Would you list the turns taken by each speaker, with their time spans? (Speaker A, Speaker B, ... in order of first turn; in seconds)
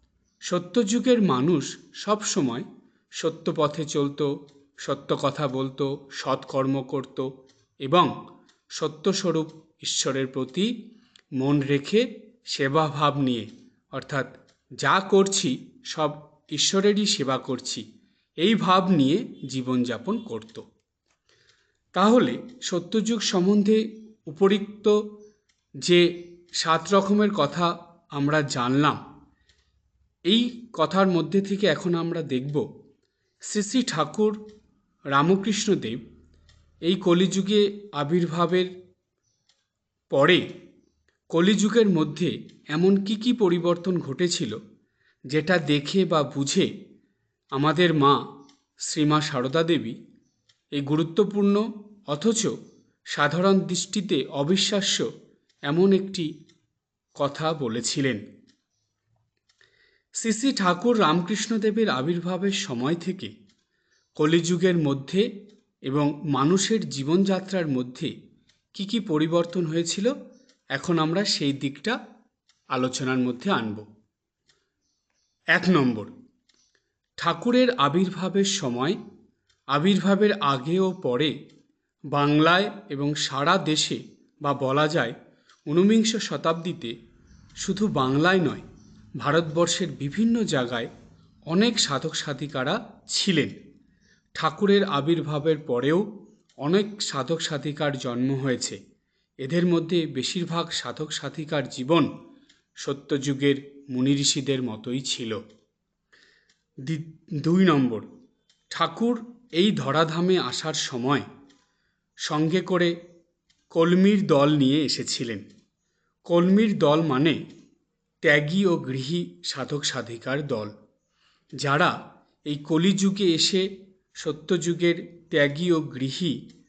Speaker A: 0.5-2.6, 3.2-4.3, 4.8-7.3, 7.8-8.1, 8.8-10.7, 11.4-14.3, 14.8-17.8, 18.4-20.6, 21.9-24.9, 25.8-29.0, 30.3-32.6, 33.5-34.4, 35.1-36.0, 36.9-38.7, 40.1-40.4, 41.3-44.6, 45.3-46.7, 47.5-48.2, 48.9-50.0, 50.8-52.5, 53.1-55.0, 55.7-56.3, 57.2-58.2, 60.2-63.3, 64.2-65.2, 65.9-68.1, 68.7-70.1, 70.7-72.0, 72.7-73.8, 75.5-76.1, 77.2-79.0, 79.7-81.3, 82.1-85.1, 85.7-86.9, 87.6-88.6, 89.2-90.9, 91.5-93.5, 94.4-96.0, 96.6-98.8, 99.4-102.1, 102.8-105.4, 106.8-108.0, 108.7-111.2, 112.2-112.9, 113.7-115.4, 116.3-117.4, 118.2-120.7, 121.6-121.9, 122.5-123.7, 124.2-126.4